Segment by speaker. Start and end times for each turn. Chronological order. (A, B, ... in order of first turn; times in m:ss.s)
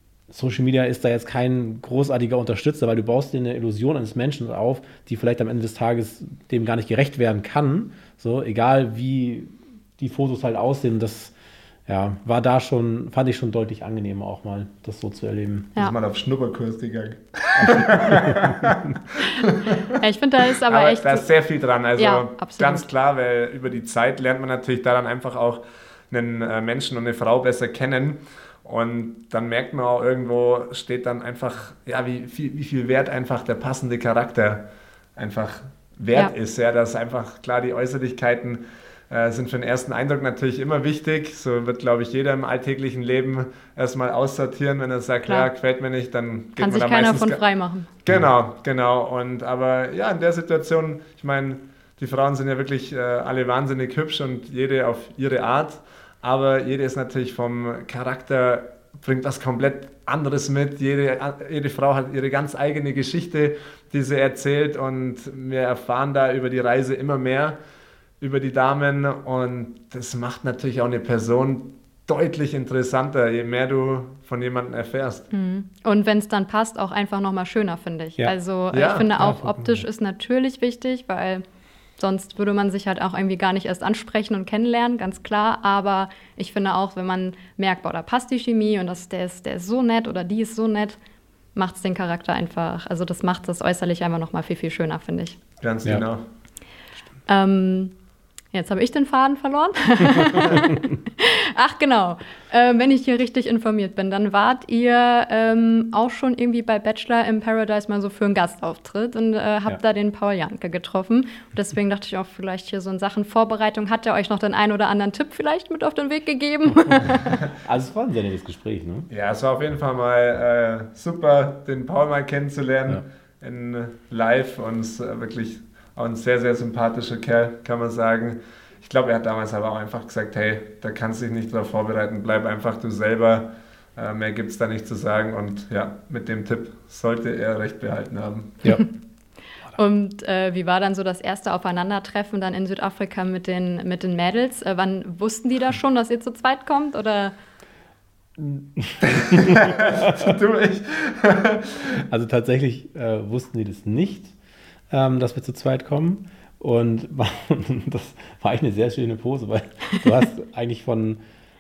0:00.3-0:11.4 A
0:11.9-0:15.7 A
0:15.8-0:19.8 B
0:17.6-0:18.8 A
0:19.9-0:21.3 C
0:20.7-0:47.4 B
0:22.0-0:22.9 C
0:46.6-0:47.9 C
0:48.0-1:07.6 B
1:08.2-1:15.3 B
1:15.3-1:21.4 C
1:18.7-1:19.2 B
1:19.2-1:19.8 A
1:22.0-1:31.0 C
1:31.6-1:35.4 C
1:35.6-1:36.2 B
1:37.3-1:37.9 C
1:38.5-1:57.4 C
1:57.6-1:59.1 A
1:59.1-2:18.6 B
2:19.8-2:27.3 C
2:28.4-2:30.4 A
2:29.0-2:32.0 B
2:32.0-2:34.3 A
2:34.9-2:41.2 A